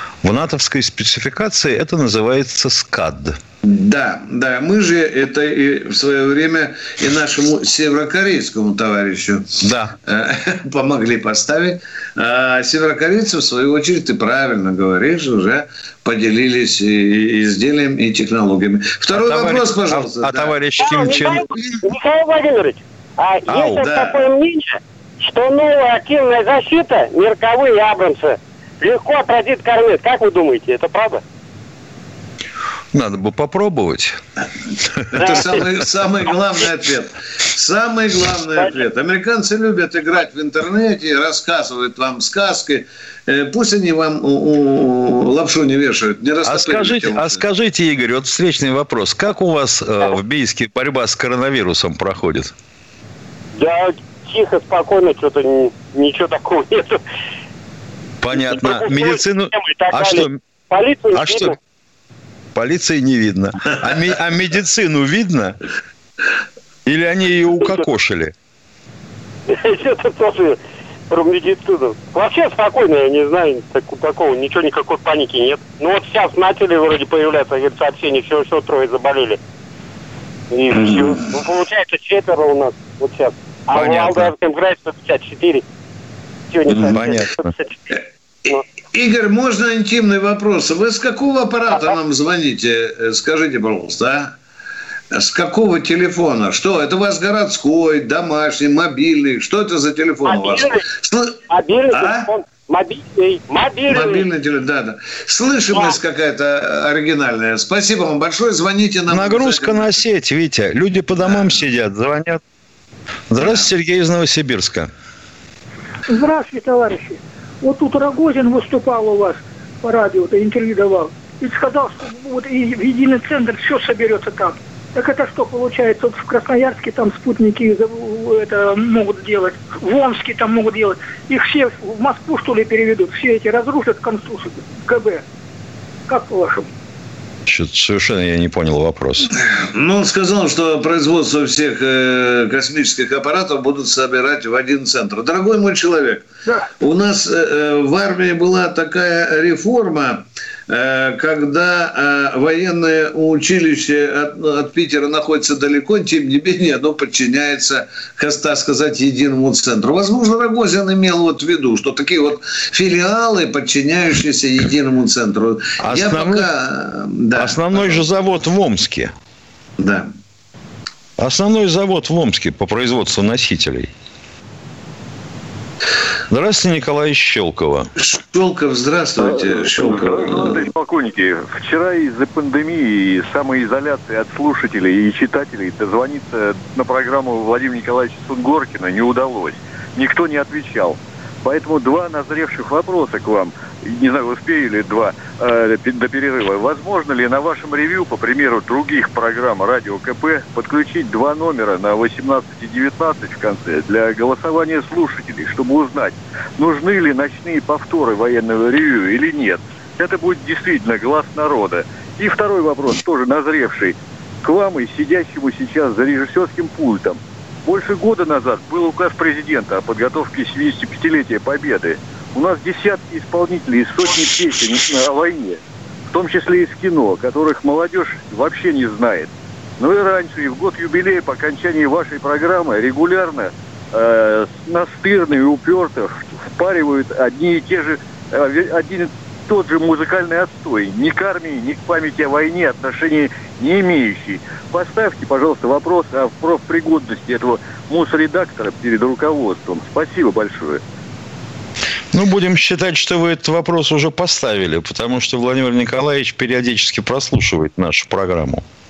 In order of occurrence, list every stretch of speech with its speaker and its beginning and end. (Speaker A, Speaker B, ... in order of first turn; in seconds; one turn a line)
Speaker A: 0.2-3.4
Speaker B: 3.6-9.4
Speaker A: 9.6-9.9
Speaker B: 10.1-20.6
Speaker A: 19.1-21.6
Speaker C: 20.8-31.2
Speaker A: 23.5-23.8
Speaker B: 23.8-24.2
Speaker A: 32.9-34.2
Speaker B: 35.1-47.4
Speaker C: 35.2-35.6
Speaker C: 38.6-38.8
Speaker A: 46.5-52.5
Speaker C: 53.5-57.0
Speaker A: 58.2-60.4
Speaker C: 58.3-61.6
Speaker A: 61.2-61.5
Speaker A: 62.5-65.6
Speaker A: 66.9-68.3
Speaker C: 69.5-79.4
Speaker C: 80.5-85.6
Speaker B: 80.8-81.2
Speaker A: 83.7-84.3
Speaker C: 86.5-87.8
Speaker B: 86.7-87.0
Speaker A: 86.9-87.5
Speaker B: 88.0-94.3
Speaker B: 95.1-101.4
Speaker C: 100.2-100.8
Speaker C: 101.5-104.3
Speaker B: 101.9-102.3
Speaker B: 103.9-110.0
Speaker C: 105.7-106.0
Speaker A: 109.1-112.4
Speaker B: 111.2-111.7
Speaker A: 113.3-114.9
Speaker B: 113.4-113.7
Speaker D: 116.1-135.2
Speaker D: 136.1-136.7
Speaker A: 137.5-139.3
Speaker B: 139.4-146.2
Speaker B: 146.8-168.1
Speaker A: 165.8-166.5
Speaker A: 167.4-169.1
Speaker B: 169.8-170.1
Speaker A: 171.2-173.9
Speaker A: 176.3-177.9
Speaker B: 178.0-180.6
Speaker E: 179.2-250.8
Speaker A: 252.1-258.6